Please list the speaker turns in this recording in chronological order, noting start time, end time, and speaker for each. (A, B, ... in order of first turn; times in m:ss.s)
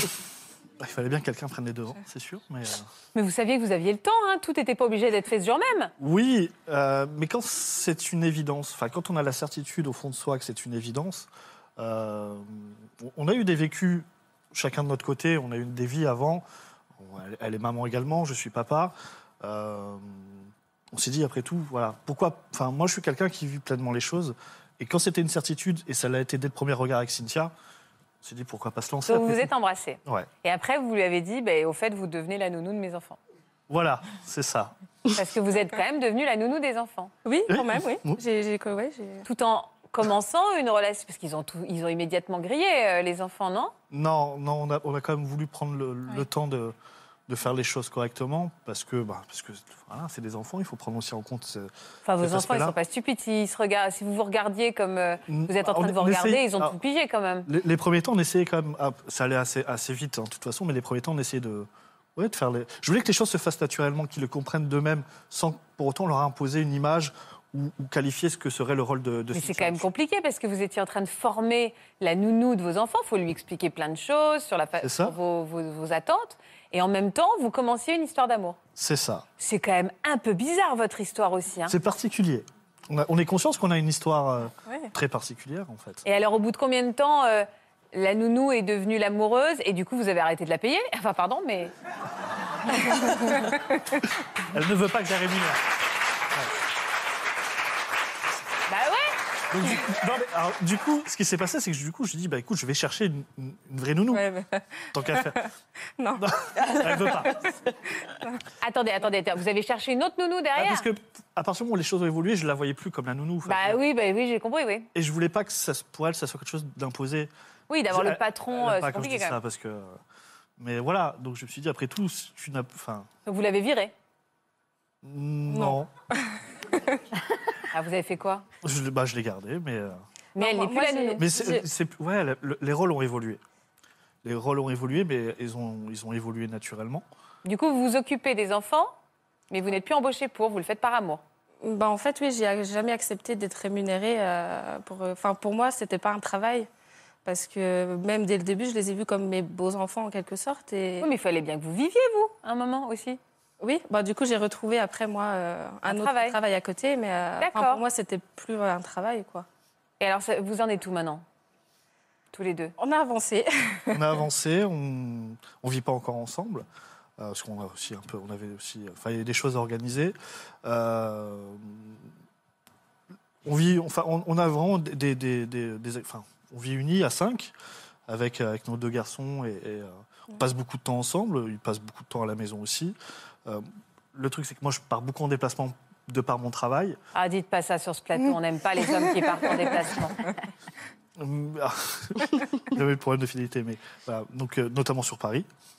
0:00.8-0:02.9 A
0:03.1-0:05.9 B
0:06.0-0:16.4 A
0:17.0-0:27.5 A
0:28.2-0:29.5 A
0:29.1-0:33.2 B
0:33.7-0:34.8 A
0:35.1-0:37.1 B
0:37.2-0:39.3 C
0:37.5-0:38.2 A
0:39.2-0:43.7 B
0:43.9-0:46.8 A
0:47.3-0:52.8 A
0:52.1-0:57.5 B
0:55.3-0:56.8 A
0:57.5-1:09.9 A
1:09.3-1:18.6 B
1:14.8-1:15.2 A
1:18.8-1:19.3 A
1:19.4-1:21.8 B
1:21.7-1:26.0 A
1:26.0-1:31.7 B
1:34.5-1:35.6 A
1:38.7-1:39.1 B
1:39.5-1:44.3 A
1:44.1-1:46.3 C
1:44.9-1:45.5 A
1:46.2-1:47.5 A
1:46.8-1:47.5 C
1:48.6-1:50.9 B
1:50.6-1:53.8 A
1:53.4-1:54.9 B
1:54.9-1:57.3 A
1:57.7-1:59.4 B
1:57.9-2:00.0 A
2:00.6-2:03.1 A
2:03.3-2:03.9 B
2:05.0-2:05.9 A
2:05.5-2:07.0 C
2:07.7-2:08.5 B
2:08.6-2:10.0 A
2:10.4-2:11.2 B
2:10.4-2:11.7 C
2:11.2-2:13.4 A
2:14.2-2:17.0 A
2:17.4-2:18.9 B
2:19.5-2:21.2 B
2:21.6-2:26.7 C
2:27.2-2:31.1 C
2:31.0-2:33.2 B
2:33.6-2:39.5 C
2:35.9-2:36.4 B
2:37.4-2:37.8 B
2:40.0-2:41.2 B
2:42.3-2:42.8 B
2:42.8-2:44.2 C
2:43.9-2:46.6 A
2:47.2-2:52.0 A
2:53.4-2:57.5 A
2:58.1-3:07.0 A
3:07.1-3:10.4 B
3:11.2-3:15.5 A